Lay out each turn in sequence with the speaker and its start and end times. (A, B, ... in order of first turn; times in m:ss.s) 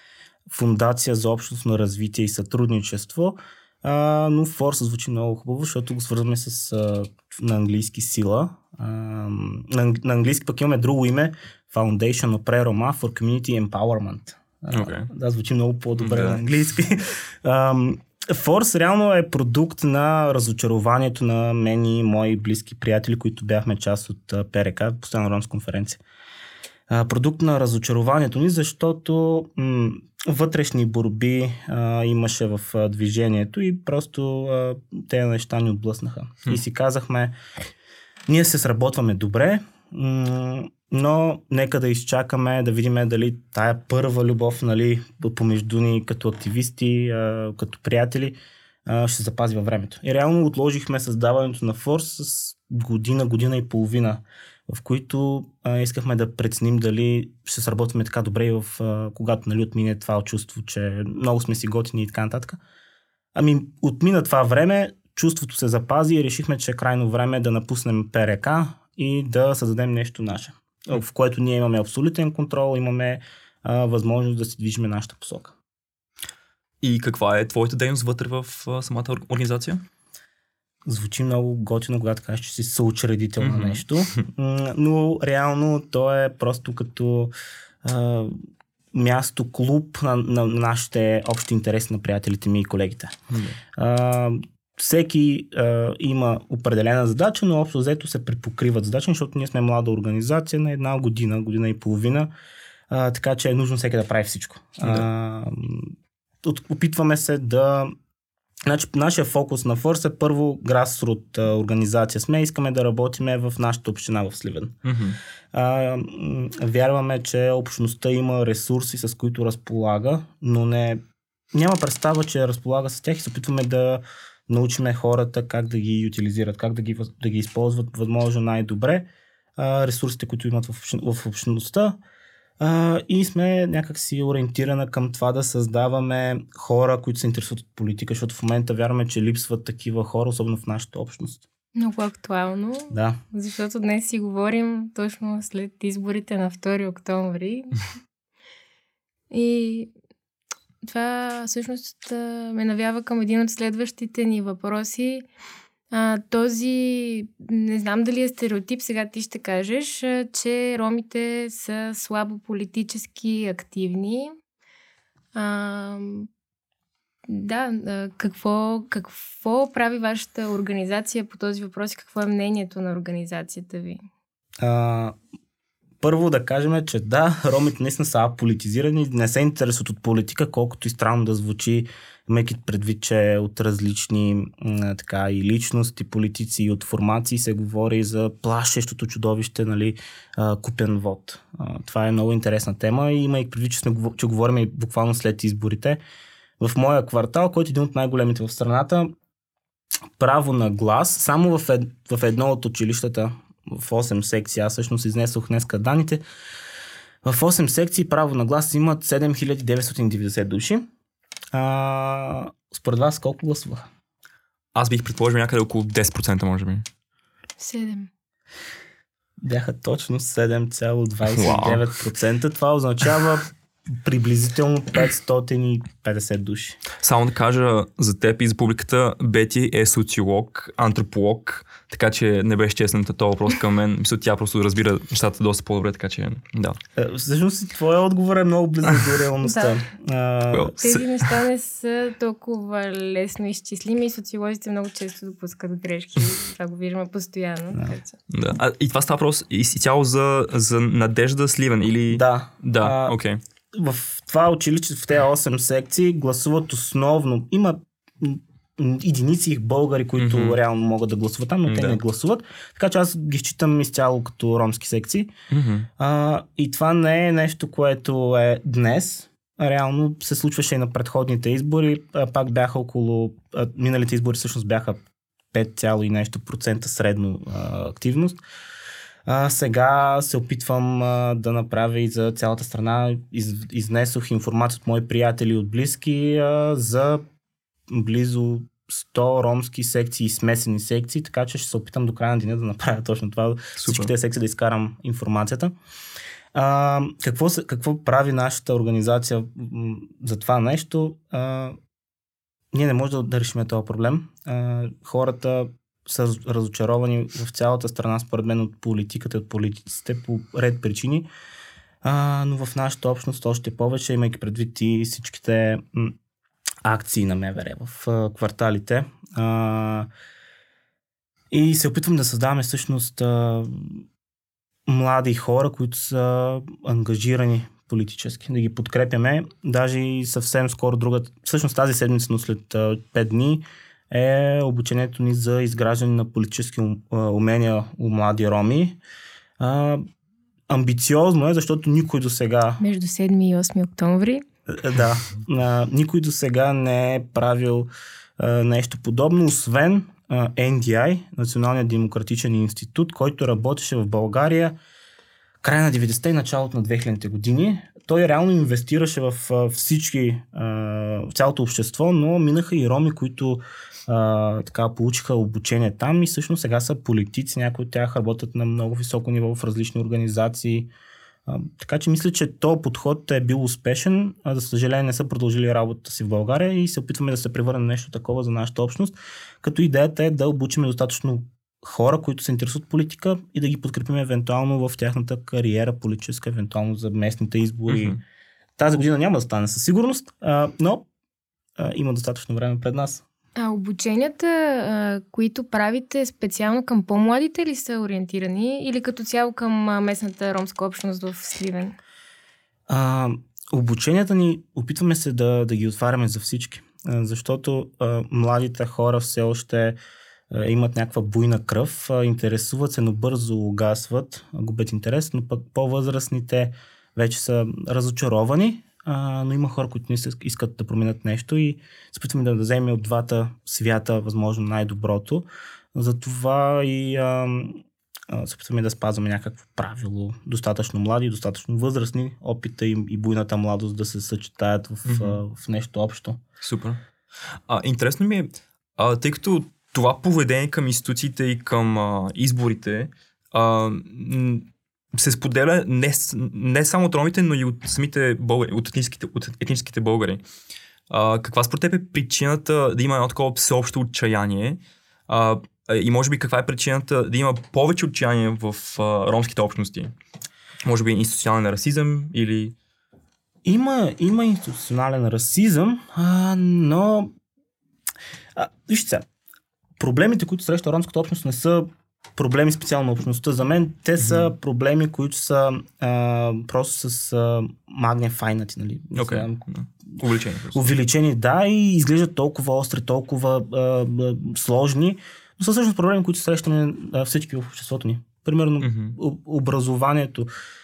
0:00.5-0:26.0 A
0:14.7-0:15.1 B
0:16.0-0:16.4 B
0:26.9-0:37.3 A
0:38.3-1:02.6 A
1:03.3-1:15.5 A
1:16.8-1:19.8 B
1:20.8-1:27.3 A
1:23.4-1:23.8 B
1:27.8-1:28.3 A
1:28.9-1:33.2 A
1:33.3-1:33.6 B
1:33.8-1:42.3 A
1:42.9-1:47.9 A
1:48.6-1:54.8 A
1:54.8-1:55.2 B
1:55.5-2:01.0 A
2:01.5-2:12.0 A
2:12.6-2:21.4 A
2:21.8-2:27.8 C
2:22.9-2:23.2 A
2:29.3-2:29.9 C
2:30.8-2:35.2 C
2:35.9-2:44.3 C
2:45.3-2:46.3 C
2:47.3-2:54.0 C
2:54.6-2:55.2 A
2:56.0-3:16.0 A
3:16.6-3:19.1 A
3:20.2-3:26.2 A
3:27.2-3:30.9 A
3:31.5-3:33.9 A
3:34.7-3:36.8 B
3:37.6-3:38.1 C
3:39.4-3:46.8 A
3:41.3-3:41.8 B
3:47.0-3:56.8 B
3:57.0-4:00.8 A
3:59.4-3:59.7 C
4:00.5-4:01.3 B
4:00.8-4:08.2 C
4:08.3-4:13.4 B
4:12.1-4:13.2 A
4:13.7-4:25.3 A
4:20.2-4:20.6 B
4:21.7-4:22.0 B
4:25.5-4:25.9 B
4:26.0-4:35.0 A
4:35.5-4:38.4 A
4:39.2-4:47.2 A
4:47.9-4:55.7 A
4:53.8-4:54.1 B
4:56.5-5:01.8 A
5:02.7-5:11.3 A
5:12.0-5:16.2 A
5:16.8-5:20.1 A
5:21.5-5:24.0 A
5:24.9-5:39.0 A
5:39.6-5:40.0 A
5:40.7-5:42.8 A
5:42.8-5:44.4 C
5:44.7-5:54.7 A
5:55.6-6:10.9 A
6:11.5-6:28.2 A
6:27.9-6:28.2 B
6:28.8-6:31.0 A
6:31.8-6:33.2 A
6:33.6-6:42.0 C
6:42.9-6:50.0 A
6:50.5-7:16.4 A
7:15.0-7:15.4 B
7:16.6-7:17.0 B
7:17.7-7:30.4 B
7:31.1-7:40.1 B
7:40.8-7:42.7 B
7:43.6-7:47.3 A
7:48.6-7:49.2 A
7:50.0-7:59.6 A
7:54.2-7:54.5 B
7:59.2-8:00.9 B
8:00.7-8:10.5 A
8:08.8-8:09.2 B